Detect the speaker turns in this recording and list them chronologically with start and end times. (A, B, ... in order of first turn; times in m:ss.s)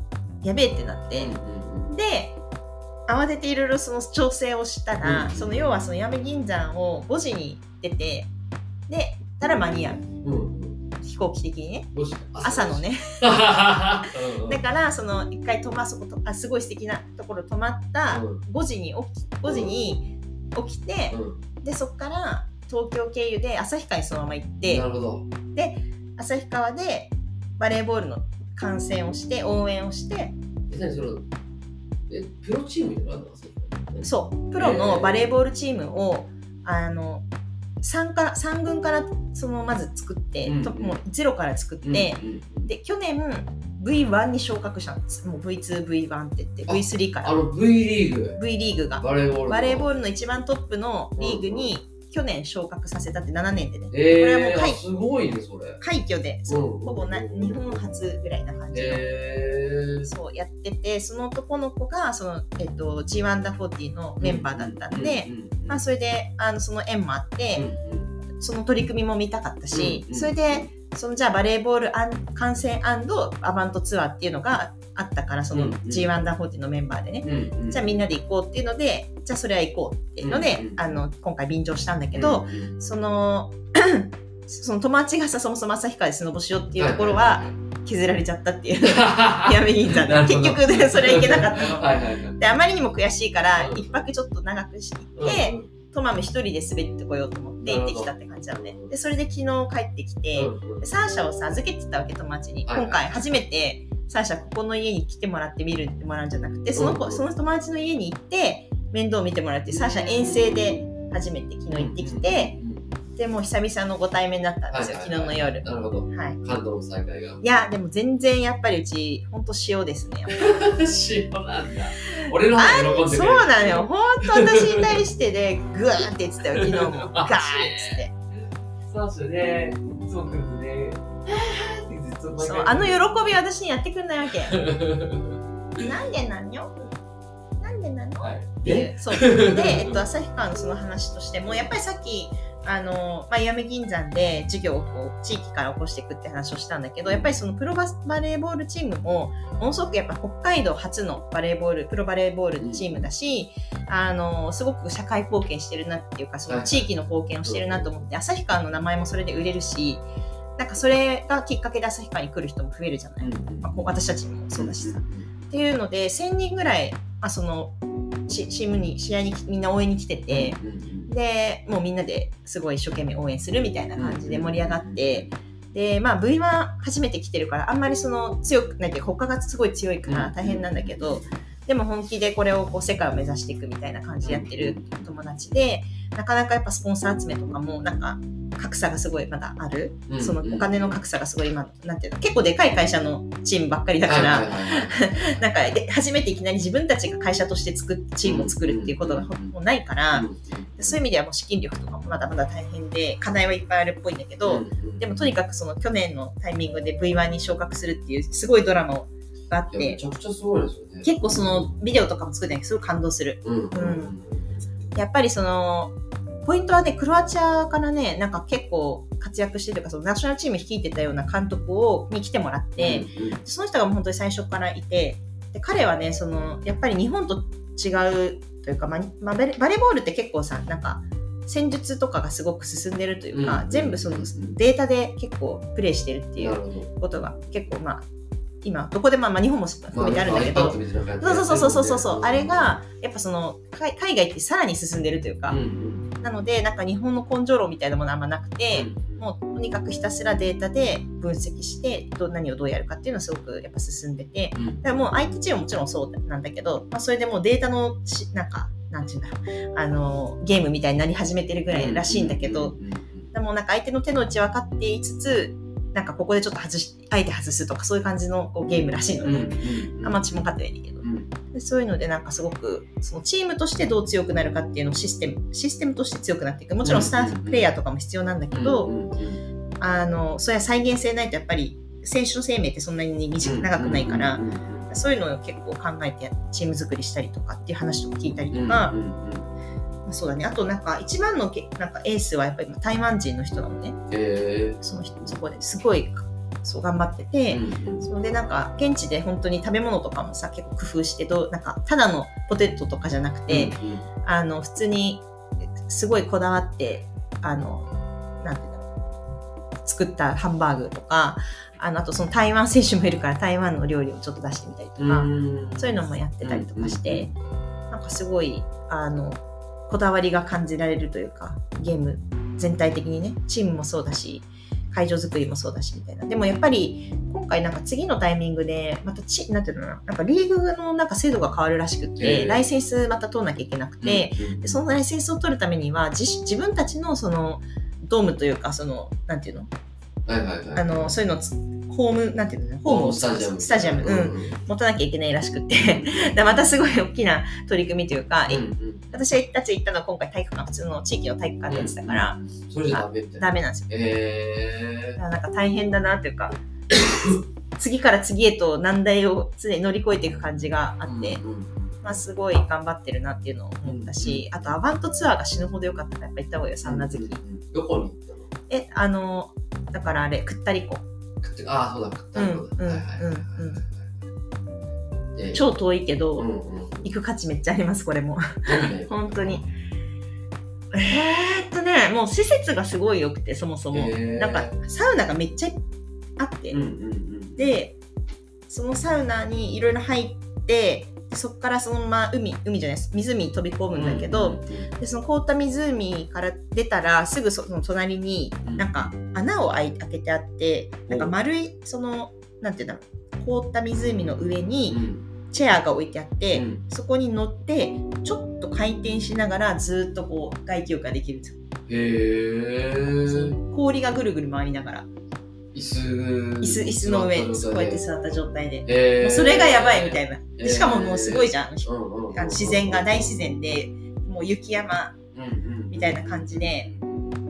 0:00.4-0:01.4 A
0:01.2-0:01.9 B
0:01.9-0:02.4 A
0:03.1-0:08.3 A
0:05.0-0:05.7 B
0:08.9-0:10.1 A
0:10.2-0:10.8 B
0:11.0-0:13.3 A
0:11.9-0:14.6 B
0:14.0-0:24.8 A
0:18.1-0:18.4 B
0:19.5-0:19.7 B
0:21.1-0:21.4 B
0:24.6-0:25.3 B
0:25.5-0:30.4 A
0:30.7-0:31.3 B
0:32.1-0:35.3 B
0:34.0-0:37.2 A
0:37.8-0:47.4 A
0:40.4-0:41.0 B
0:41.8-0:42.7 B
0:46.7-0:48.4 B
0:48.4-0:54.8 A
0:49.0-0:49.9 B
0:51.2-0:51.7 B
0:53.9-0:55.8 B
0:55.8-0:59.0 A
0:56.5-0:58.0 B
0:58.7-1:00.1 B
1:00.0-1:07.7 A
1:04.2-1:05.8 B
1:07.5-1:08.1 B
1:08.3-1:31.8 A
1:09.7-1:10.7 B
1:15.5-1:16.1 B
1:17.2-1:17.8 B
1:20.2-1:20.9 B
1:22.1-1:22.7 B
1:26.8-1:27.6 B
1:28.8-1:32.4 B
1:32.4-1:52.6 A
1:33.6-1:34.0 B
1:35.2-1:35.7 B
1:37.6-1:38.9 B
1:40.4-1:40.9 B
1:42.6-1:43.0 B
1:46.7-1:47.2 B
1:49.6-1:50.9 B
1:51.7-1:53.0 B
1:53.2-1:56.4 A
1:54.7-1:57.4 B
1:57.4-2:00.5 A
2:00.3-2:05.0 B
2:02.2-2:08.1 A
2:06.6-2:08.0 B
2:08.9-2:13.4 B
2:12.4-2:14.6 A
2:14.5-2:15.9 B
2:15.8-2:16.8 A
2:17.6-2:40.0 A
2:18.2-2:20.0 B
2:21.5-2:21.8 B
2:27.1-2:27.4 B
2:32.6-2:33.1 B
2:36.5-2:36.9 B
2:37.4-2:38.0 B
2:40.6-2:47.8 A
2:43.2-2:43.7 B
2:44.5-2:45.3 B
2:48.3-3:30.0 A
2:50.3-2:51.1 B
2:54.0-2:55.3 B
3:00.0-3:01.3 B
3:04.2-3:05.1 B
3:10.1-3:11.0 B
3:14.0-3:15.4 B
3:18.2-3:19.5 B
3:20.1-3:21.0 B
3:24.4-3:25.3 B
3:29.7-3:31.7 B
3:31.0-3:34.1 A
3:33.4-3:34.7 B
3:34.9-3:35.9 A
3:36.4-3:58.0 A
3:42.8-3:43.4 B
3:53.3-3:54.6 B
3:56.4-3:56.9 B
3:58.6-4:05.6 A
3:59.9-4:02.8 B
4:05.5-4:06.2 B
4:06.2-4:22.8 A
4:08.7-4:09.2 B
4:14.5-4:14.8 B
4:21.7-4:23.3 B
4:23.3-4:38.9 A
4:29.2-4:30.2 B
4:31.0-4:31.3 B
4:36.8-4:37.7 B
4:38.5-4:39.4 B
4:39.8-4:48.9 A
4:43.4-4:44.9 B
4:48.5-4:49.5 B
4:50.0-4:54.0 A
4:54.1-4:55.4 B
4:54.8-5:05.2 A
4:57.5-4:58.1 B
5:03.5-5:04.1 B
5:05.8-5:07.9 A
5:08.4-5:08.8 A
5:09.8-5:17.3 A
5:15.0-5:17.3 B
5:17.9-5:39.7 A
5:32.2-5:32.6 B
5:34.0-5:34.8 B
5:40.2-5:41.1 B
5:40.8-5:52.4 A
5:42.8-5:44.6 B
5:45.8-5:46.4 B
5:48.5-5:49.2 B
5:51.7-5:55.2 B
5:52.9-5:53.9 A
5:55.2-5:56.6 A
5:56.9-5:57.4 B
5:57.1-6:01.4 A
6:01.0-6:02.1 B
6:02.0-6:07.4 A
6:03.8-6:04.4 B
6:06.8-6:08.5 B
6:08.7-6:11.0 A
6:11.4-6:14.1 B
6:12.3-6:13.8 A
6:15.3-6:15.6 B
6:15.5-6:16.5 A
6:16.4-6:17.1 B
6:17.0-6:19.7 A
6:18.6-6:19.6 B
6:20.9-6:25.8 A
6:23.9-6:24.8 B
6:26.4-6:26.8 A
6:26.7-6:27.7 B
6:27.6-6:28.0 A
6:28.7-6:51.6 A
6:33.9-6:34.9 B
6:38.6-6:39.1 B
6:41.1-6:41.3 B
6:44.9-6:45.2 B
6:46.5-6:46.8 B
6:51.9-6:53.6 B
6:53.2-6:55.1 A
6:55.7-6:58.0 B
6:56.6-7:05.2 A
6:58.8-7:03.6 B
7:05.3-7:07.4 B
7:05.9-7:06.9 A